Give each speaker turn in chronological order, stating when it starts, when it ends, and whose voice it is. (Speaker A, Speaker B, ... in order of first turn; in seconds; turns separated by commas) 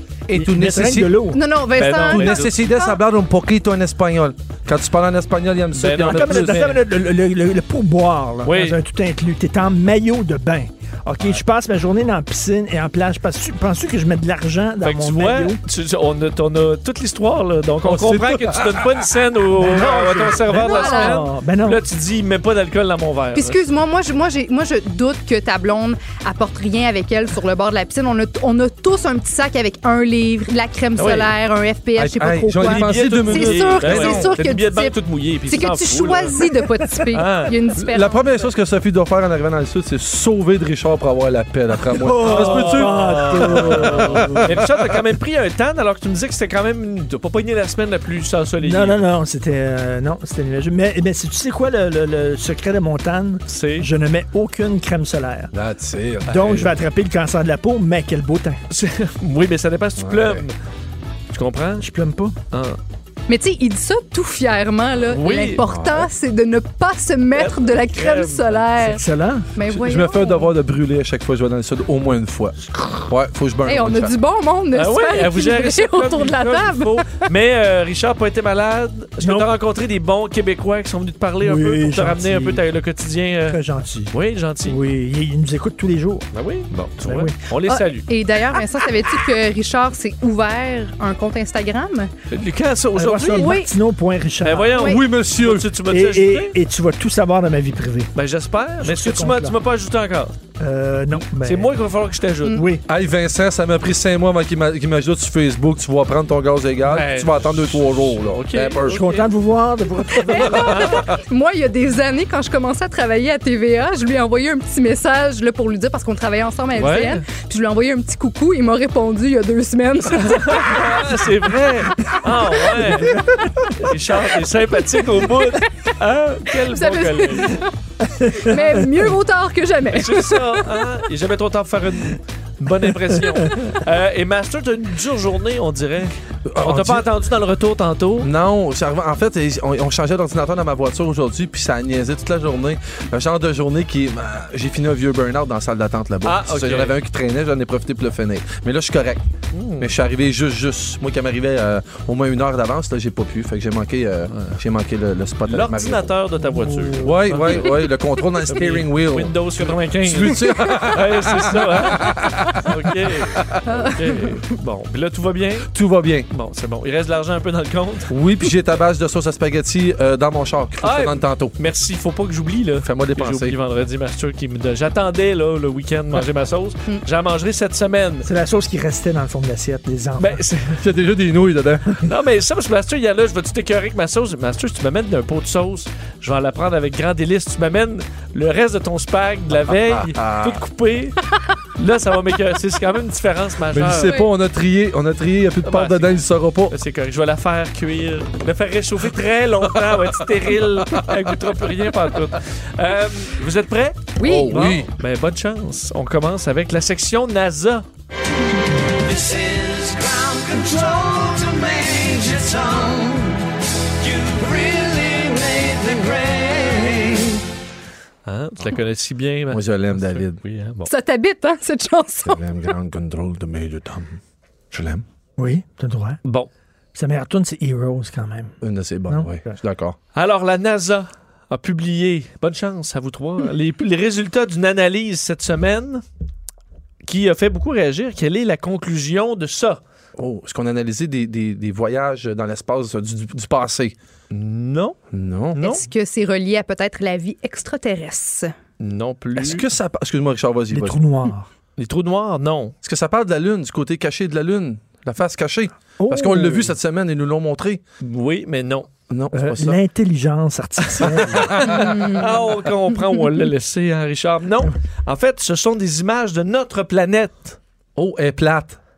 Speaker A: 0.3-1.2, Speaker B: 0.3-1.4, Speaker C: 1.3-3.0, Speaker D: 1.8-2.6, Speaker A: 1.9-6.6, Speaker D: 5.7-6.8, Speaker B: 6.1-15.6, Speaker D: 8.5-8.8, Speaker D: 14.8-23.6, Speaker A: 17.8-19.1, Speaker B: 19.6-21.8, Speaker C: 20.6-21.2, Speaker C: 23.4-38.4, Speaker D: 31.0-31.4, Speaker A: 32.0-34.4, Speaker D: 32.5-36.5, Speaker D: 37.1-37.6, Speaker A: 37.8-45.0, Speaker B: 41.9-44.6, Speaker D: 42.2-49.0, Speaker B: 48.6-55.5, Speaker D: 53.5-53.9, Speaker A: 55.5-56.7, Speaker D: 56.3-56.7, Speaker B: 56.3-58.6, Speaker D: 58.7-60.6, Speaker A: 60.0-60.5, Speaker D: 61.3-61.9, Speaker B: 61.8-62.4, Speaker D: 62.5-62.8, Speaker C: 63.3-69.0, Speaker D: 65.1-65.6, Speaker A: 65.6-66.1, Speaker D: 67.3-68.7, Speaker B: 68.8-69.5, Speaker C: 69.6-70.5, Speaker A: 69.7-74.1, Speaker C: 73.7-77.2, Speaker D: 74.7-83.6, Speaker B: 79.2-79.5, Speaker B: 81.4-82.6, Speaker B: 83.5-86.3, Speaker D: 84.1-84.8, Speaker D: 86.3-88.1, Speaker B: 87.0-87.4, Speaker C: 87.7-92.1, Speaker D: 92.3-93.6, Speaker B: 93.0-94.9, Speaker C: 93.3-93.7, Speaker D: 94.4-96.6, Speaker C: 94.8-95.0, Speaker A: 94.8-95.7, Speaker B: 95.9-98.1, Speaker D: 98.2-100.4, Speaker B: 98.8-99.5, Speaker B: 100.6-101.8, Speaker D: 101.2-102.6, Speaker B: 102.5-102.8, Speaker A: 102.9-109.1, Speaker D: 106.8-109.2, Speaker B: 108.9-110.7, Speaker A: 110.3-111.1, Speaker C: 110.3-121.2, Speaker D: 110.5-111.0, Speaker D: 116.8-117.2, Speaker D: 120.0-127.6, Speaker B: 122.8-123.7, Speaker C: 126.7-127.7, Speaker B: 128.2-128.6, Speaker C: 128.3-130.9, Speaker D: 128.5-128.8, Speaker D: 129.9-138.3, Speaker A: 136.5-137.1, Speaker A: 138.2-149.2, Speaker D: 146.2-146.9, Speaker D: 149.5-149.9, Speaker A: 149.8-156.2, Speaker D: 155.5-157.9, Speaker A: 157.0-163.6, Speaker D: 158.5-163.4, Speaker C: 163.7-164.4, Speaker D: 163.9-165.7, Speaker A: 165.7-166.3, Speaker D: 166.3-168.1, Speaker A: 168.1-171.6, Speaker D: 170.8-178.3, Speaker A: 172.8-173.6, Speaker B: 178.2-180.4, Speaker D: 180.2-180.8, Speaker A: 180.8-182.0, Speaker D: 182.0-191.2, Speaker A: 189.7-190.6, Speaker D: 191.8-194.2, Speaker A: 193.7-196.8, Speaker D: 195.7-196.1, Speaker D: 196.7-207.8, Speaker C: 204.2-204.8, Speaker A: 204.2-204.9, Speaker E: 209.1-213.4, Speaker E: 214.0-217.4, Speaker D: 218.3-220.9, Speaker A: 219.5-220.4, Speaker C: 220.9-222.4, Speaker A: 222.2-224.2, Speaker A: 224.7-225.1, Speaker B: 225.4-226.2, Speaker D: 226.2-226.5, Speaker B: 226.9-228.5, Speaker A: 228.6-230.0, Speaker B: 229.1-229.6, Speaker D: 230.2-236.0, Speaker D: 237.1-239.8, Speaker A: 240.2-243.9, Speaker D: 244.3-245.0, Speaker A: 245.1-245.6, Speaker D: 245.6-245.8, Speaker C: 245.6-248.5, Speaker D: 248.8-249.7, Speaker A: 249.4-251.0, Speaker B: 250.7-251.5, Speaker D: 251.8-252.8, Speaker A: 252.8-257.8, Speaker B: 256.0-256.7, Speaker D: 258.0-258.9, Speaker A: 259.1-259.8, Speaker B: 259.3-261.6, Speaker D: 260.8-267.6, Speaker A: 261.2-261.9, Speaker C: 261.7-262.4, Speaker A: 268.0-268.8